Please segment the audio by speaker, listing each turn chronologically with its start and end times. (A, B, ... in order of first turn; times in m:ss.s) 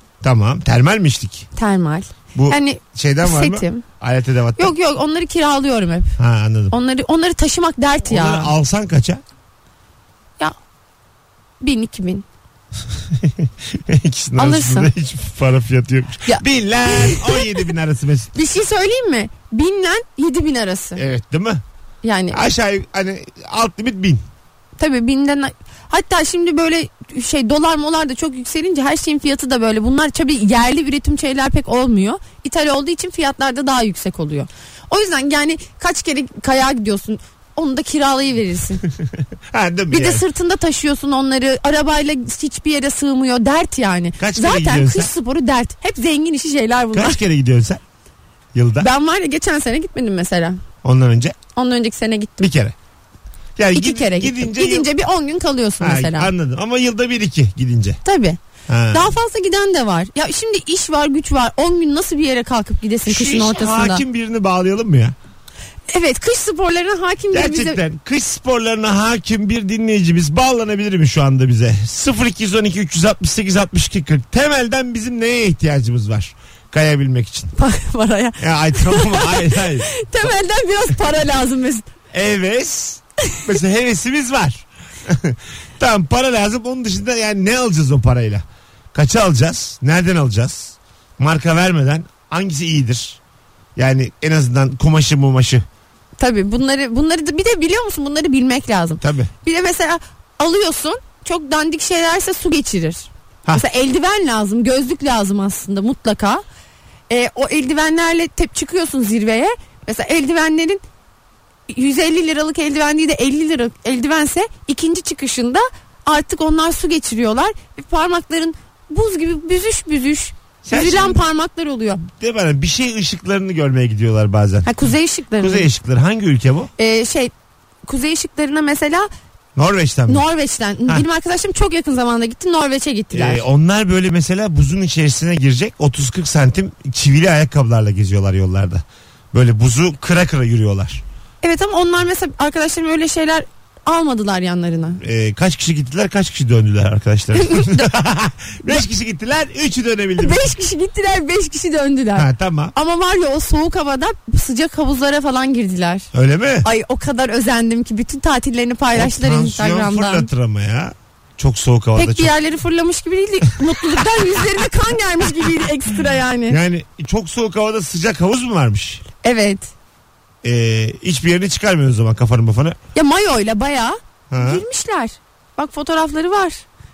0:00.2-0:01.5 A
0:01.6-0:03.8 B
0:02.3-0:04.7 A
0:04.6-0:06.2 B
0:06.2-0:06.8 A
0:06.7-0:08.5 B
0:08.0-0:09.2 A
0:11.6-0:12.2 B
0:13.1-0:18.3 A
0:14.4-0:14.9 B
0:16.3-0:17.4 B
0:18.3-0:21.0 B
0:21.0-0:21.6 A
0:22.0-0:22.4 B
0:22.3-0:24.2 A
0:24.8-0:38.8 B
0:39.0-0:40.2 A
0:39.9-0:47.2 B
0:44.2-0:45.1 A
0:46.9-0:47.8 A
0:48.5-0:48.9 A
0:48.8-0:50.6 B
0:50.8-0:51.4 A
0:51.6-0:52.5 B
0:52.4-0:52.8 A
0:53.6-0:54.9 A
0:53.7-0:56.3 B
0:55.8-0:58.0 A
0:58.0-0:58.4 B
0:58.7-0:59.1 A
0:58.9-1:04.0 B
1:03.1-1:05.2 A
1:05.9-1:07.8 B
1:07.3-1:17.5 A
1:17.6-1:21.9 B
1:18.4-1:20.3 A
1:22.1-1:33.2 A
1:33.8-1:35.6 A
1:36.2-1:46.4 B
1:39.0-1:39.3 A
1:47.1-1:50.8 B
1:51.7-2:02.0 B
2:00.6-2:01.2 A
2:02.0-2:04.8 A
2:04.6-2:05.7 B
2:05.4-2:06.7 A
2:06.8-2:07.3 B
2:07.9-2:09.1 B
2:09.6-2:10.2 A
2:10.1-2:13.4 B
2:13.1-2:21.0 A
2:21.4-2:25.0 B
2:25.0-2:30.5 A
2:27.4-2:27.9 B
2:30.2-2:36.1 B
2:32.2-2:32.7 A
2:36.1-2:36.7 A
2:36.6-2:40.3 B
2:39.0-2:42.3 A
2:42.0-2:46.6 B
2:43.8-2:44.3 A
2:46.5-2:49.0 A
2:49.2-2:49.7 B
2:50.4-2:52.8 A
2:53.0-2:56.6 B
2:54.3-2:54.6 A